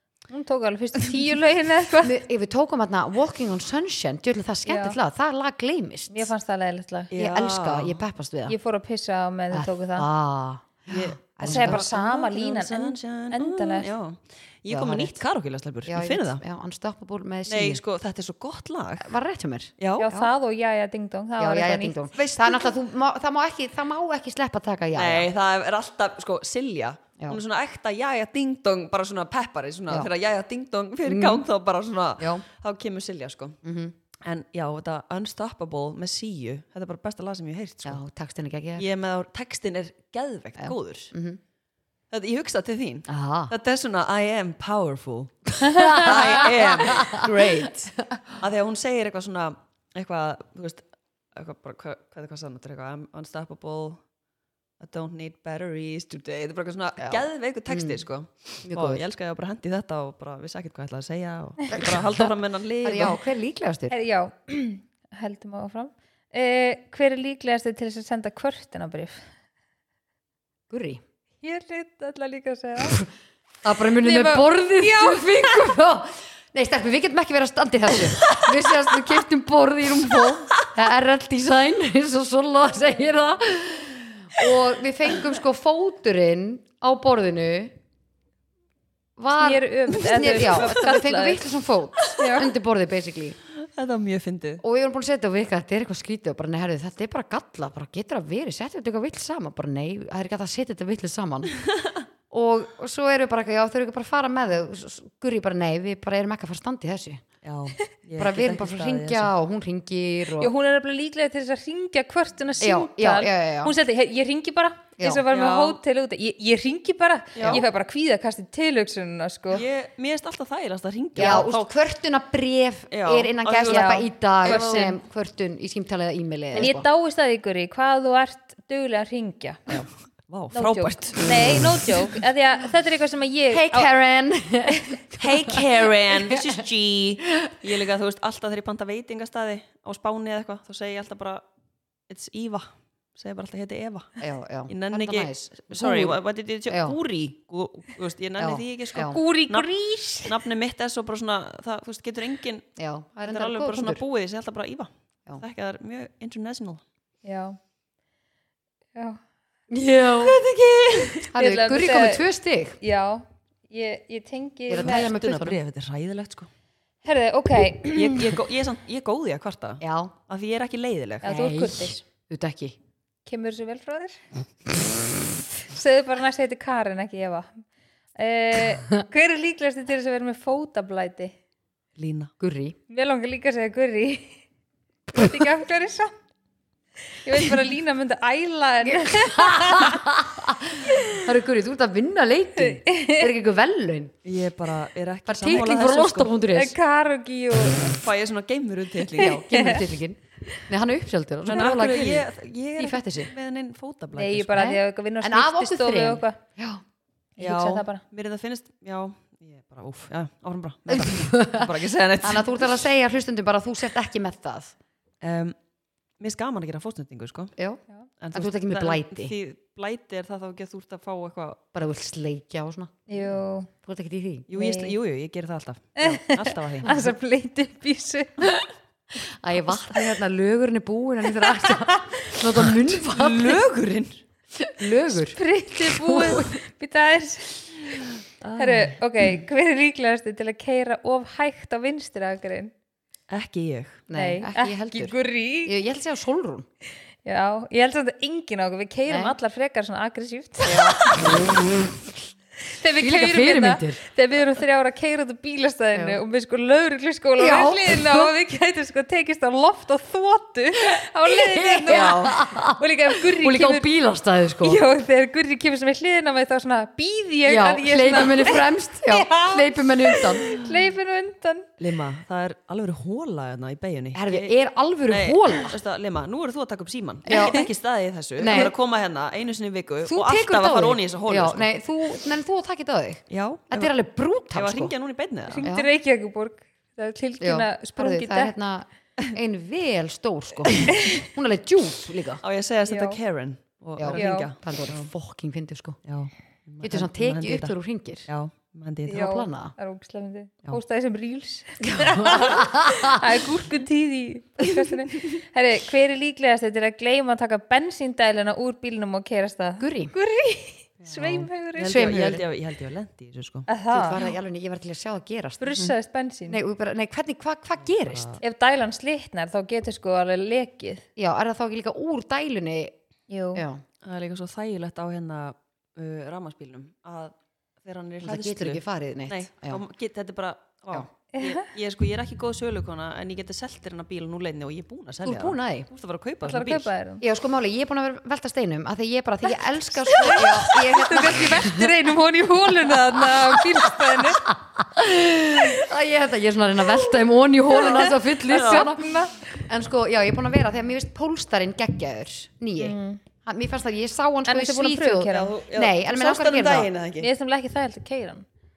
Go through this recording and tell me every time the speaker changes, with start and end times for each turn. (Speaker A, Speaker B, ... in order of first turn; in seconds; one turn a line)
Speaker A: 0.3-2.1
Speaker B: 2.0-6.3
Speaker A: 4.7-5.0
Speaker A: 6.1-7.1
Speaker C: 7.1-8.0
Speaker B: 7.1-8.6
Speaker A: 8.5-10.1
Speaker B: 9.5-11.9
Speaker C: 10.9-16.4
Speaker A: 11.4-13.9
Speaker B: 14.7-15.2
Speaker B: 15.8-17.8
Speaker C: 17.5-19.1
Speaker B: 19.0-20.3
Speaker C: 19.8-20.1
Speaker A: 20.0-21.9
Speaker B: 21.4-25.3
Speaker C: 22.1-22.7
Speaker C: 24.9-33.6
Speaker B: 31.1-31.4
Speaker B: 32.2-32.4
Speaker B: 33.6-33.9
Speaker C: 34.2-38.0
Speaker B: 37.8-38.9
Speaker C: 38.8-41.1
Speaker B: 40.6-41.4
Speaker C: 42.1-54.0
Speaker B: 43.1-43.5
Speaker B: 45.6-48.3
Speaker A: 45.7-46.0
Speaker C: 54.8-63.2
Speaker B: 57.0-58.0
Speaker B: 58.6-59.0
Speaker B: 61.7-64.0
Speaker A: 63.9-69.2
Speaker B: 70.7-71.0
Speaker A: 71.4-73.0
Speaker B: 73.6-87.7
Speaker A: 74.0-75.7
Speaker B: 89.2-93.4
Speaker A: 89.4-91.4
Speaker C: 90.0-90.7
Speaker A: 92.2-92.5
Speaker C: 93.5-94.6
Speaker B: 94.6-101.5
Speaker B: 102.3-107.2
Speaker C: 107.4-109.3
Speaker B: 108.2-110.5
Speaker A: 110.4-119.6
Speaker B: 112.6-113.7
Speaker C: 115.3-115.8
Speaker C: 117.3-117.6
Speaker B: 117.4-117.6
Speaker C: 119.5-121.6
Speaker B: 121.2-126.8
Speaker C: 122.9-125.0
Speaker A: 123.7-125.0
Speaker A: 126.5-129.6
Speaker C: 129.7-131.6
Speaker A: 130.5-133.9
Speaker B: 133.5-136.6
Speaker A: 134.7-135.0
Speaker C: 135.2-141.4
Speaker B: 137.4-137.7
Speaker C: 142.1-152.7
Speaker B: 144.2-147.0
Speaker B: 148.4-149.2
Speaker A: 149.0-150.3
Speaker B: 152.8-154.0
Speaker C: 153.2-156.8
Speaker A: 157.2-157.6
Speaker A: 158.9-159.2
Speaker B: 159.7-160.4
Speaker C: 160.1-161.3
Speaker B: 161.3-162.8
Speaker A: 161.3-162.2
Speaker A: 162.8-165.1
Speaker B: 164.7-165.6
Speaker C: 164.8-166.5
Speaker A: 167.0-168.3
Speaker C: 167.9-171.3
Speaker B: 169.8-170.1
Speaker A: 171.2-172.0
Speaker B: 171.2-172.8
Speaker A: 173.2-174.2
Speaker A: 175.6-177.6
Speaker A: 178.2-181.3
Speaker C: 182.0-182.3
Speaker B: 182.4-182.8
Speaker A: 182.9-184.4
Speaker A: 185.1-186.1
Speaker A: 187.1-190.1
Speaker B: 188.8-194.1
Speaker A: 190.8-191.3
Speaker A: 192.6-193.3
Speaker C: 194.2-196.3
Speaker B: 195.2-196.8
Speaker A: 196.5-197.9
Speaker C: 197.8-199.4
Speaker B: 199.2-203.3
Speaker A: 199.2-199.8
Speaker C: 201.4-204.7
Speaker A: 204.1-206.4
Speaker B: 204.6-206.8
Speaker A: 207.4-208.0
Speaker C: 207.4-212.7
Speaker B: 210.9-214.7
Speaker C: 215.2-215.6
Speaker C: 216.2-217.5
Speaker C: 218.2-221.6
Speaker B: 218.3-219.3
Speaker B: 221.7-223.0
Speaker A: 223.1-223.7
Speaker B: 223.8-224.5
Speaker C: 224.5-227.0
Speaker A: 224.5-224.9
Speaker A: 226.0-228.6
Speaker B: 229.3-233.6
Speaker A: 231.6-232.3
Speaker C: 232.5-234.2
Speaker B: 234.6-236.6
Speaker A: 235.3-238.0
Speaker C: 238.4-239.0
Speaker A: 238.6-242.7
Speaker C: 243.3-244.0
Speaker B: 244.1-246.7
Speaker A: 244.1-245.7
Speaker A: 247.2-251.4
Speaker B: 249.1-249.3
Speaker B: 250.6-252.1
Speaker A: 252.7-263.9
Speaker B: 253.0-254.0
Speaker B: 255.9-256.2
Speaker B: 257.4-258.3
Speaker B: 261.3-264.8
Speaker C: 261.9-262.4
Speaker A: 264.6-271.7
Speaker B: 267.4-270.5
Speaker C: 271.8-274.5
Speaker B: 274.1-275.8
Speaker C: 275.1-281.7
Speaker B: 277.3-277.7
Speaker B: 278.4-278.7
Speaker B: 280.1-284.9
Speaker C: 283.3-283.9
Speaker C: 284.5-285.6
Speaker A: 285.5-288.5
Speaker B: 285.6-285.9
Speaker B: 287.4-292.4
Speaker C: 292.4-295.1
Speaker A: 292.9-293.2
Speaker B: 294.0-296.0
Speaker A: 294.1-294.5
Speaker C: 296.1-297.7
Speaker B: 296.8-298.3
Speaker C: 298.3-299.3
Speaker A: 299.1-311.9
Speaker B: 299.1-299.7
Speaker B: 301.9-303.2
Speaker B: 309.8-310.1
Speaker C: 311.0-314.3
Speaker B: 311.8-312.4
Speaker A: 313.7-314.2
Speaker B: 313.9-315.8
Speaker A: 315.6-316.6
Speaker B: 316.5-318.4
Speaker C: 317.9-318.4
Speaker A: 318.4-321.1
Speaker B: 321.1-322.9
Speaker A: 323.3-323.6
Speaker B: 323.5-323.8
Speaker C: 324.0-336.9
Speaker B: 328.2-329.8
Speaker A: 331.3-331.7
Speaker B: 335.2-335.9
Speaker A: 336.4-337.2
Speaker B: 337.2-341.9
Speaker A: 340.0-344.4
Speaker B: 342.9-356.9
Speaker C: 347.7-348.9
Speaker A: 347.7-349.3
Speaker A: 352.8-353.2
Speaker A: 354.5-355.5
Speaker C: 355.3-357.3
Speaker A: 357.2-358.4